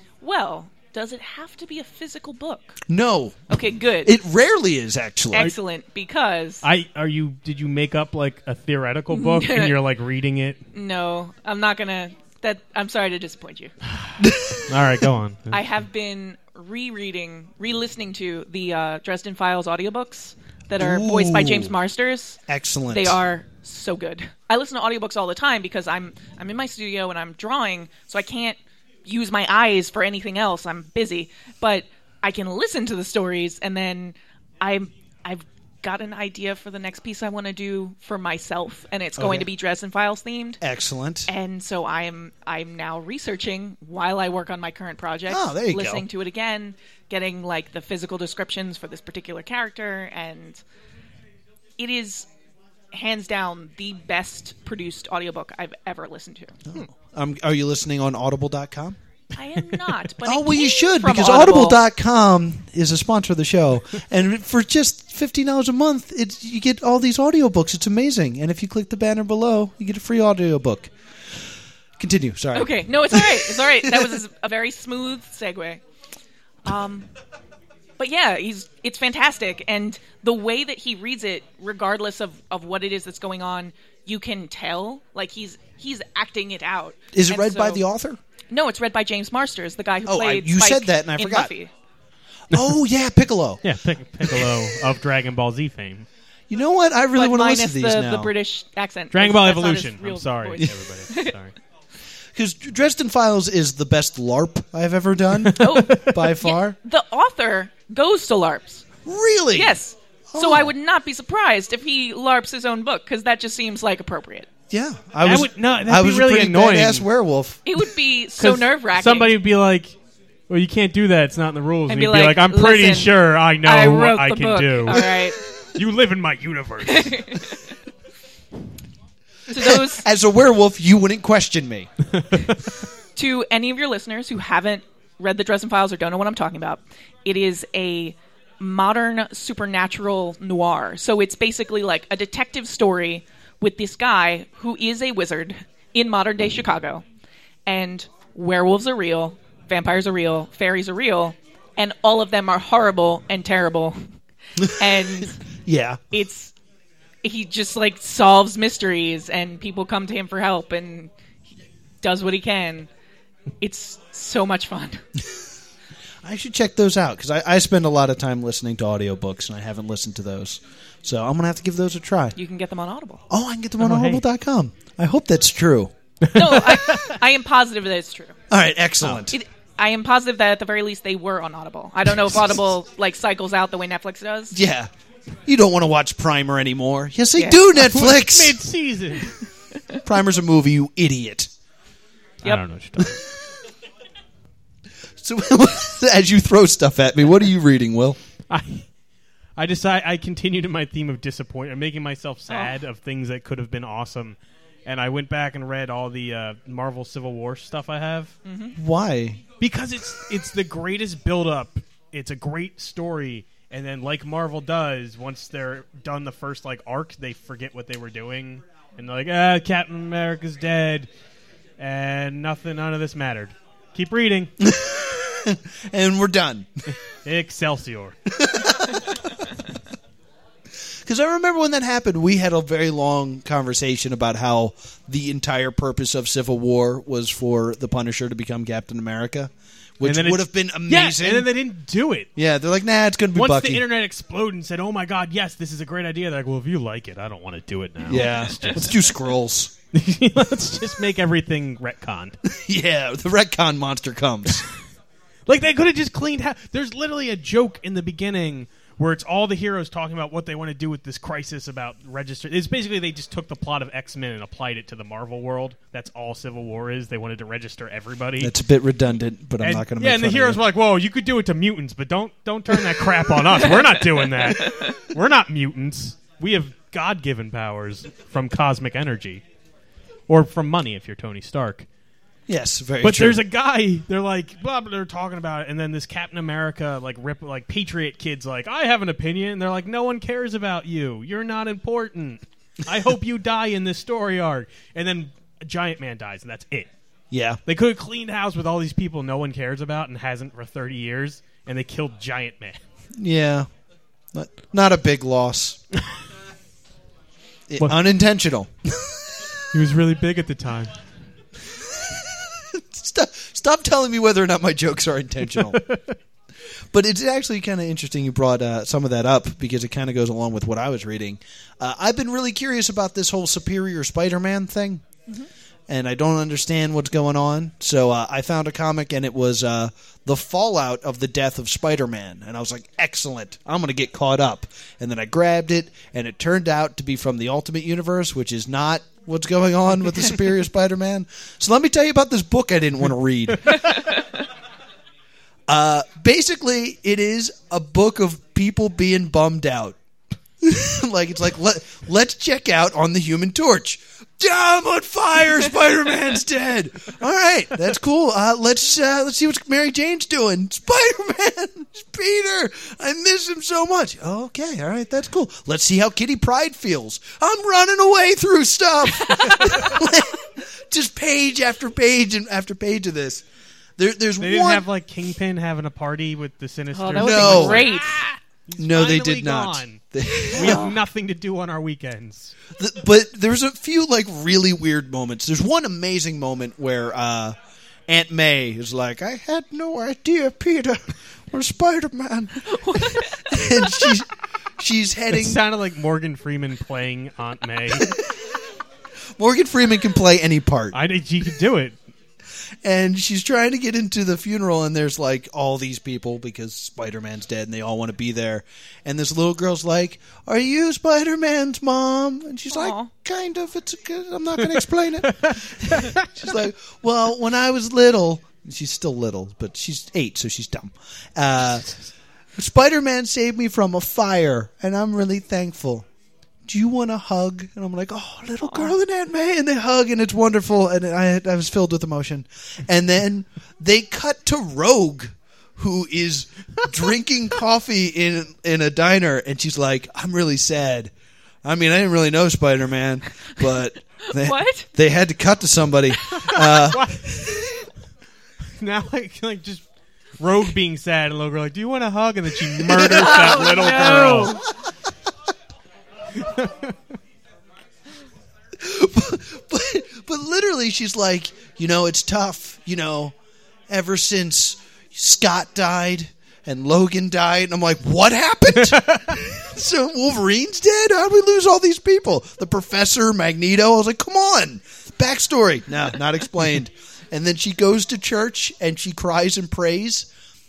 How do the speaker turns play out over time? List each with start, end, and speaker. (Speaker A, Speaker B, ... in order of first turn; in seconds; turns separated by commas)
Speaker A: 0.2-2.8, Speaker B: 2.9-3.5, Speaker A: 3.5-4.1, Speaker B: 4.0-5.5, Speaker A: 5.3-6.6, Speaker C: 6.6-10.6, Speaker A: 9.1-9.8, Speaker A: 10.7-13.7, Speaker C: 14.0-15.6, Speaker B: 14.2-14.8, Speaker A: 15.5-40.6, Speaker B: 20.8-21.8, Speaker B: 22.5-23.2, Speaker B: 39.2-39.5, Speaker B: 40.6-41.3, Speaker A: 41.3-50.6, Speaker B: 45.3-46.0, Speaker A: 51.8-52.3, Speaker A: 52.9-56.6, Speaker B: 56.7-59.0, Speaker A: 59.3-61.8, Speaker B: 60.2-70.9, Speaker B: 72.0-74.2, Speaker A: 72.5-75.8, Speaker A: 76.6-77.1, Speaker A: 78.0-87.8, Speaker B: 87.1-88.2, Speaker A: 88.5-91.7, Speaker B: 90.0-91.5, Speaker B: 92.5-93.6, Speaker C: 93.6-96.1, Speaker B: 94.3-94.7, Speaker B: 96.5-98.3, Speaker A: 97.2-101.3, Speaker C: 99.1-101.5, Speaker B: 102.3-106.8, Speaker C: 105.4-106.1, Speaker A: 105.6-108.8, Speaker B: 109.0-109.8, Speaker A: 109.5-114.5, Speaker B: 110.3-110.7, Speaker B: 114.7-117.6, Speaker C: 115.2-117.0, Speaker A: 117.6-119.3, Speaker C: 118.4-120.0, Speaker C: 120.5-125.1, Speaker A: 121.9-125.4, Speaker C: 125.7-127.5, Speaker A: 126.9-127.6, Speaker A: 129.5-130.0, Speaker B: 129.5-131.9, Speaker C: 132.2-132.6, Speaker A: 133.2-147.0, Speaker A: 147.7-154.0, Speaker B: 154.6-156.0, Speaker A: 154.7-155.4, Speaker A: 156.1-156.5, Speaker A: 157.2-161.1, Speaker A: 162.0-162.9, Speaker A: 163.6-165.0, Speaker B: 165.2-165.4, Speaker B: 166.2-172.3, Speaker A: 172.3-173.2, Speaker B: 173.3-175.9, Speaker C: 173.8-174.2, Speaker C: 176.2-177.2, Speaker A: 176.3-178.4, Speaker B: 178.5-179.4, Speaker A: 179.3-184.6, Speaker B: 184.5-184.9, Speaker B: 185.4-188.6, Speaker A: 187.3-187.6, Speaker C: 187.8-189.4, Speaker B: 190.0-191.5, Speaker C: 192.4-193.2, Speaker B: 195.2-198.2, Speaker C: 198.5-198.9, Speaker C: 199.6-208.3, Speaker A: 208.4-208.8, Speaker B: 208.8-209.4, Speaker C: 209.6-221.1, Speaker C: 221.8-224.5, Speaker B: 224.6-226.7, Speaker C: 227.2-228.2, Speaker B: 228.3-229.2, Speaker B: 231.0-241.5, Speaker C: 240.0-242.3, Speaker B: 242.3-243.8, Speaker C: 243.3-249.1, Speaker B: 248.0-249.7, Speaker C: 249.9-252.4, Speaker B: 252.4-254.7, Speaker C: 255.5-268.5, Speaker B: 268.4-270.6, Speaker C: 269.6-279.4, Speaker A: 274.5-275.0, Speaker C: 280.3-281.9, Speaker B: 282.5-283.4, Speaker C: 283.0-296.9, Speaker B: 297.3-297.6, Speaker C: 297.6-302.8, Speaker B: 303.2-303.7, Speaker B: 304.3-305.8, Speaker B: 307.7-309.6, Speaker C: 309.7-311.0, Speaker B: 311.6-315.8, Speaker C: 315.6-316.1, Speaker B: 316.9-325.0, Speaker B: 325.9-344.1, Speaker A: 343.9-344.2, Speaker B: 345.7-349.9, Speaker B: 350.6-373.4, Speaker A: 369.2-370.0, Speaker B: 374.0-374.9, Speaker C: 374.4-382.6, Speaker A: 376.9-378.2, Speaker B: 377.2-377.9, Speaker B: 378.8-380.9, Speaker A: 380.5-380.9, Speaker B: 382.8-387.5, Speaker B: 388.1-395.6, Speaker A: 392.6-394.1, Speaker C: 395.3-398.1, Speaker B: 397.9-398.5, Speaker B: 399.4-400.9, Speaker C: 400.9-402.0, Speaker B: 402.8-421.9, Speaker A: 412.7-413.1, Speaker C: 415.3-416.3, Speaker B: 422.6-426.1, Speaker B: 426.6-441.1, Speaker A: 428.6-428.9, Speaker B: 441.6-447.6, Speaker A: 444.3-444.9, Speaker C: 446.3-447.4, Speaker C: 448.8-449.8, Speaker C: 450.4-454.6, Speaker B: 452.8-454.4, Speaker A: 453.0-454.6, Speaker C: 456.4-456.9, Speaker B: 458.8-463.3, Speaker B: 463.9-480.3, Speaker C: 468.8-469.4